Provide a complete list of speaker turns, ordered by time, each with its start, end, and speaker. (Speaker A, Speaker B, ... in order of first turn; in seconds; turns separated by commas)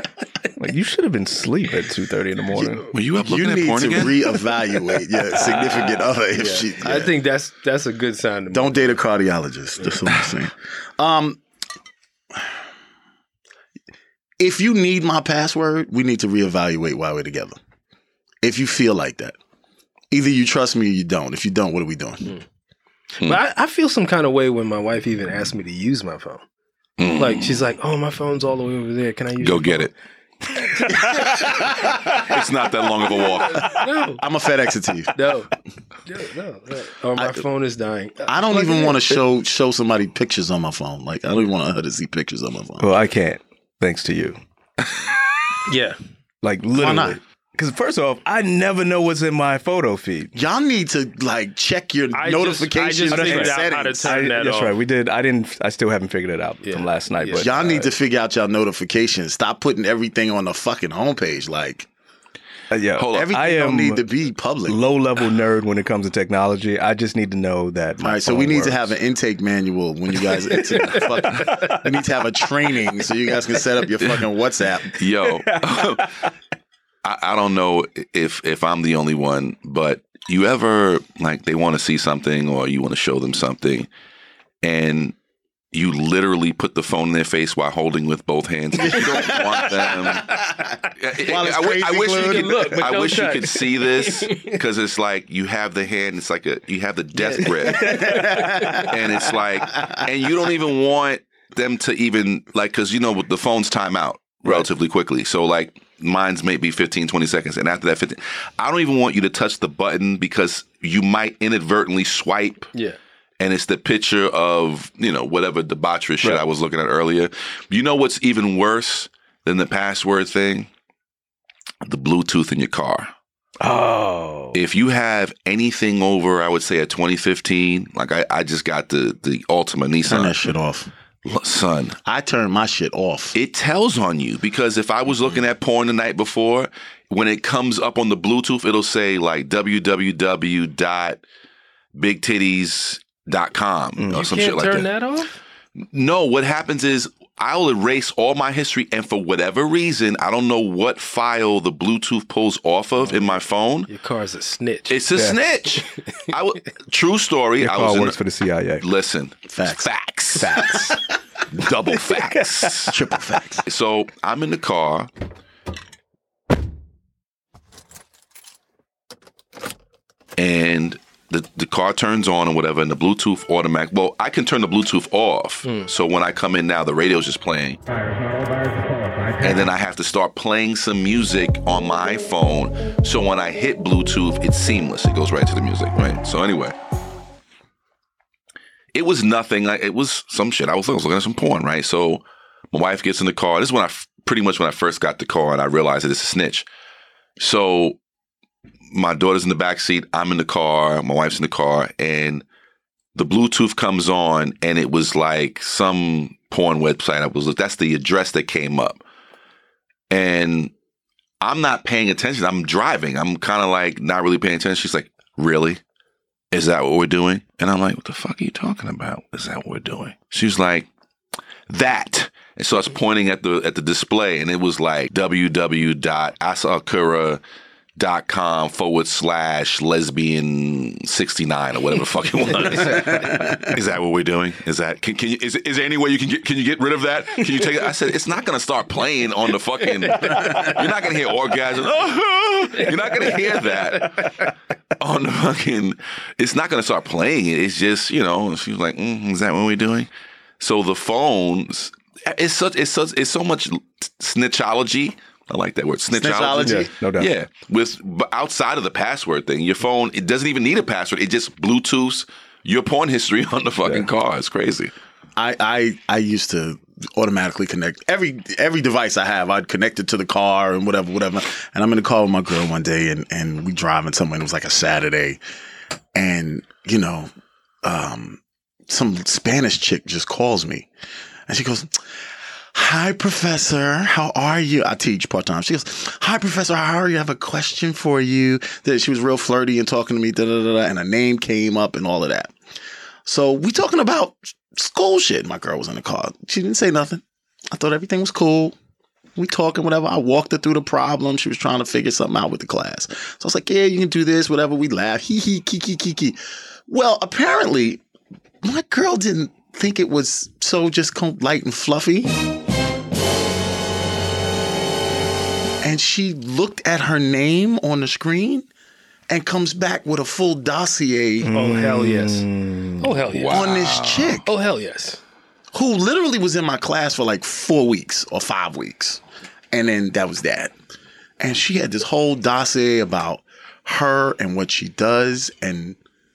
Speaker A: 0.6-2.9, Speaker B: 2.9-4.3, Speaker C: 3.2-7.1, Speaker D: 6.4-9.0, Speaker C: 8.5-11.4, Speaker C: 14.4-17.6, Speaker C: 18.4-19.4, Speaker C: 20.1-22.3, Speaker D: 23.2-26.4, Speaker B: 27.0-27.6, Speaker D: 27.2-29.9, Speaker B: 29.4-29.9, Speaker B: 32.1-33.8, Speaker D: 33.5-34.2, Speaker C: 34.2-35.1, Speaker D: 35.2-35.5, Speaker D: 36.1-39.2, Speaker C: 37.2-37.4, Speaker C: 38.3-42.9, Speaker A: 42.8-44.4, Speaker D: 45.7-46.0, Speaker A: 46.4-50.3, Speaker C: 46.8-47.2, Speaker C: 50.3-54.1, Speaker D: 52.1-54.8, Speaker A: 53.1-57.9, Speaker D: 56.6-57.5, Speaker C: 57.4-61.9, Speaker A: 62.7-64.1, Speaker B: 63.0-63.4, Speaker C: 63.1-64.8, Speaker A: 64.7-68.9, Speaker C: 68.0-75.0, Speaker A: 70.7-71.7, Speaker B: 75.0-76.1, Speaker A: 75.3-76.0, Speaker B: 77.0-83.9, Speaker B: 84.6-85.2, Speaker B: 85.7-90.4, Speaker C: 88.8-92.8, Speaker B: 91.0-112.7, Speaker D: 92.2-94.6, Speaker A: 97.7-98.6, Speaker C: 97.8-98.9, Speaker B: 113.4-120.7, Speaker B: 121.8-123.1, Speaker A: 123.6-124.6, Speaker B: 124.5-130.3, Speaker C: 130.1-130.9, Speaker B: 131.2-132.0, Speaker C: 132.1-133.4, Speaker B: 133.3-141.2, Speaker B: 141.9-144.9, Speaker D: 144.1-145.3, Speaker B: 145.8-153.9, Speaker D: 153.1-155.0, Speaker B: 154.9-158.2, Speaker A: 155.1-155.4, Speaker A: 157.6-158.8, Speaker B: 158.8-160.9, Speaker C: 159.5-159.9, Speaker A: 160.4-161.0, Speaker B: 161.5-162.9, Speaker A: 162.1-162.9, Speaker C: 162.9-163.7, Speaker B: 163.7-165.1, Speaker B: 170.4-177.8, Speaker A: 178.2-179.3, Speaker B: 179.4-186.8, Speaker B: 188.9-196.7, Speaker B: 197.4-198.0, Speaker B: 198.9-202.4, Speaker B: 203.2-209.0, Speaker B: 210.1-210.7, Speaker B: 211.4-215.8, Speaker B: 216.5-220.9, Speaker B: 221.7-227.4, Speaker B: 228.0-244.5, Speaker B: 245.0-250.1, Speaker B: 250.6-264.9, Speaker C: 256.1-256.9, Speaker A: 256.6-257.3, Speaker C: 265.4-275.4, Speaker C: 276.1-277.3, Speaker C: 277.8-280.9, Speaker C: 281.5-281.9, Speaker C: 282.7-292.5, Speaker C: 293.2-298.8, Speaker C: 299.4-308.0, Speaker C: 308.6-312.3, Speaker C: 315.8-318.7, Speaker C: 319.3-321.5, Speaker A: 321.4-323.1, Speaker D: 321.5-322.5, Speaker D: 323.0-323.8, Speaker B: 323.3-324.4, Speaker C: 323.5-324.5, Speaker D: 324.5-325.2, Speaker C: 325.7-329.2, Speaker C: 329.7-330.7, Speaker C: 331.4-336.0